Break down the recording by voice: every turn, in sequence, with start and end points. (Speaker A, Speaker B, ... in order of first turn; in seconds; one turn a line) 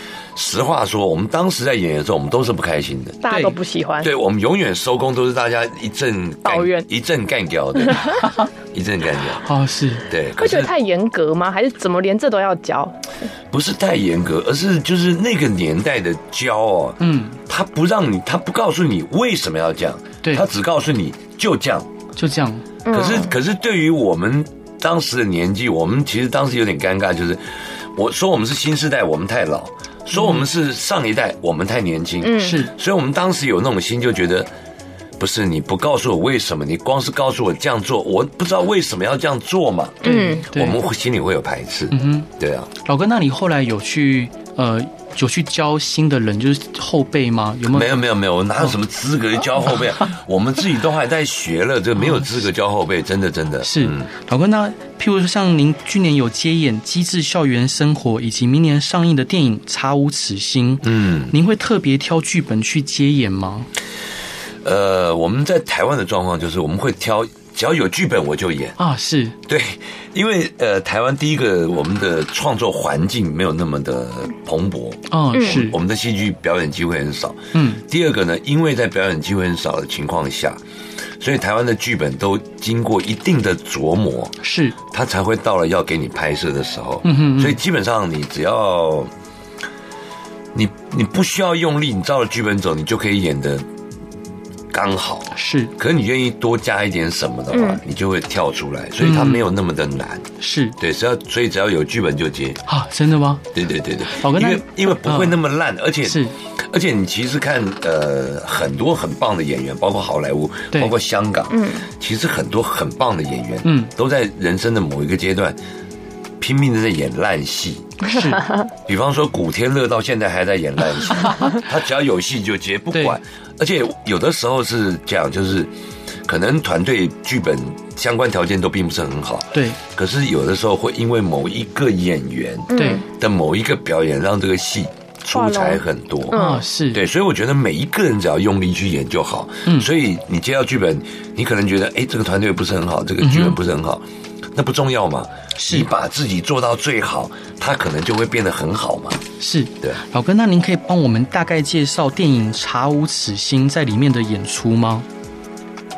Speaker A: 0.3-3.2
Speaker B: 3.2-4.1
Speaker C: 3.3-3.5
Speaker A: 4.0-9.4
Speaker B: 6.4-6.9
Speaker B: 7.8-8.2
Speaker C: 9.4-10.1
Speaker A: 10.1-10.7
Speaker B: 10.4-13.0
Speaker A: 13.5-21.9
Speaker C: 17.0-17.4
Speaker C: 22.1-22.6
Speaker B: 22.8-23.3
Speaker A: 22.9-34.5
Speaker C: 30.1-30.4
Speaker B: 32.2-32.6
Speaker C: 32.4-32.7
Speaker A: 35.2-42.7
Speaker B: 40.0-40.5
Speaker C: 40.0-40.8
Speaker C: 41.9-42.3
Speaker C: 42.8-48.0
Speaker A: 47.7-54.1
Speaker C: 53.6-63.7
Speaker A: 60.8-61.3
Speaker A: 64.6-68.8
Speaker C: 68.8-69.3
Speaker A: 69.5-80.6
Speaker C: 75.1-75.7
Speaker C: 77.5-77.8
Speaker A: 81.2-89.1
Speaker C: 84.4-84.7
Speaker C: 87.0-87.6
Speaker A: 90.5-93.6
Speaker A: 94.7-102.6
Speaker C: 95.3-95.7
Speaker B: 97.5-97.8
Speaker C: 99.0-99.5
Speaker C: 100.4-100.8
Speaker C: 102.7-103.4
Speaker A: 103.5-115.6
Speaker C: 104.0-105.4
Speaker C: 106.0-106.3
Speaker B: 111.5-111.8
Speaker C: 113.6-113.9
Speaker A: 116.4-118.0
Speaker C: 118.0-118.5
Speaker A: 118.8-125.7
Speaker C: 121.2-121.6
Speaker A: 126.2-136.4
Speaker B: 132.7-133.0
Speaker C: 132.8-133.0
Speaker B: 135.3-136.6
Speaker C: 136.3-137.0
Speaker A: 136.9-144.0
Speaker C: 143.2-143.6
Speaker A: 144.5-149.2
Speaker C: 145.6-145.9
Speaker C: 149.4-155.1